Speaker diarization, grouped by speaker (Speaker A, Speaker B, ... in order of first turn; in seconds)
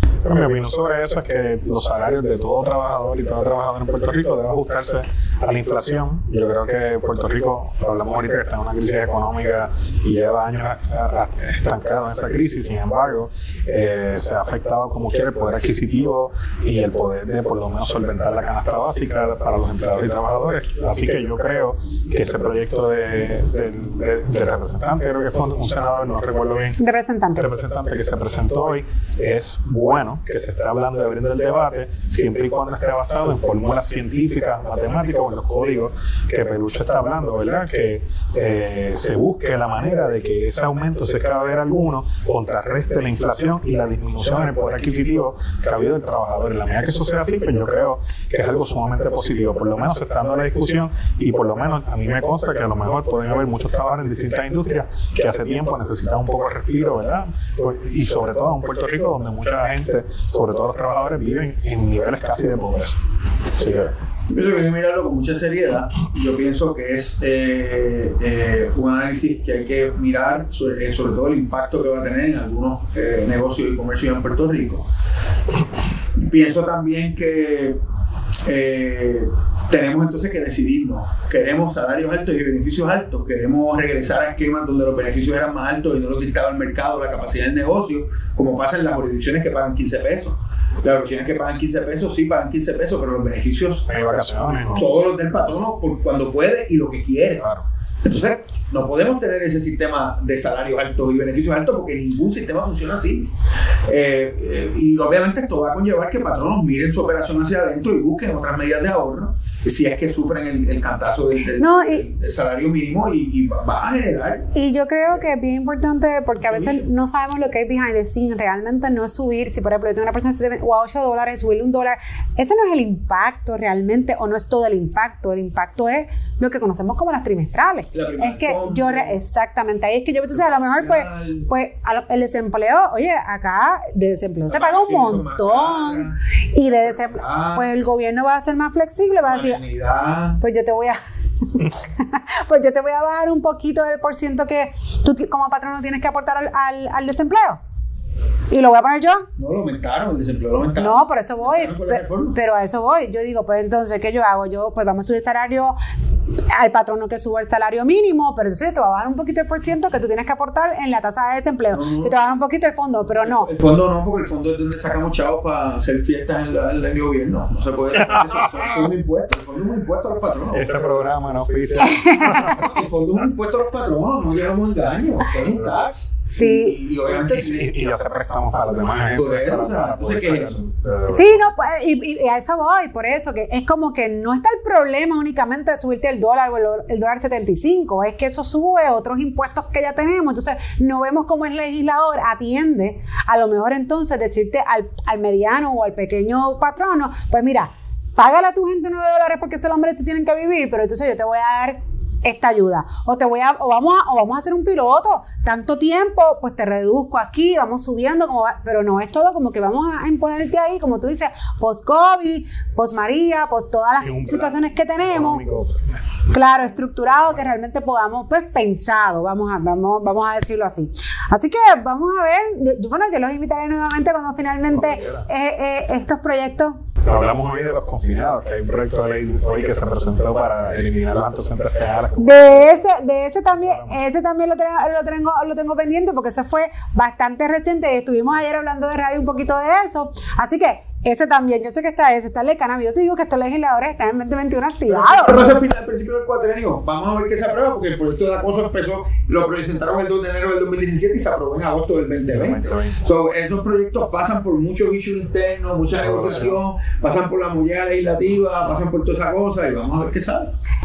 Speaker A: 0.2-26.8, 27.4-63.0, 63.6-63.9, 93.9-94.9, 168.1-168.6, 170.5-172.7, 175.6-175.9, 177.1-181.4, 214.0-216.2, 224.7-225.3, 227.1-232.8, 233.6-234.0, 252.3-253.0, 256.0-256.6
Speaker B: 26.8-27.4, 111.6-112.0, 114.5-139.6, 140.4-147.6, 148.5-149.3, 150.8-155.8, 156.5-163.5, 171.9-172.6, 176.3-176.8, 181.1-215.4, 216.3-226.8, 232.2-245.5
Speaker C: 64.3-74.9, 76.2-77.8, 78.5-93.9, 94.7-97.5, 98.0-103.3, 103.9-114.5, 116.6-116.8, 127.9-129.2, 130.3-131.5, 134.5-137.7, 139.2-140.4, 149.4-152.4, 161.7-162.2, 163.2-170.8, 172.2-177.7, 179.1-180.6, 244.9-260.5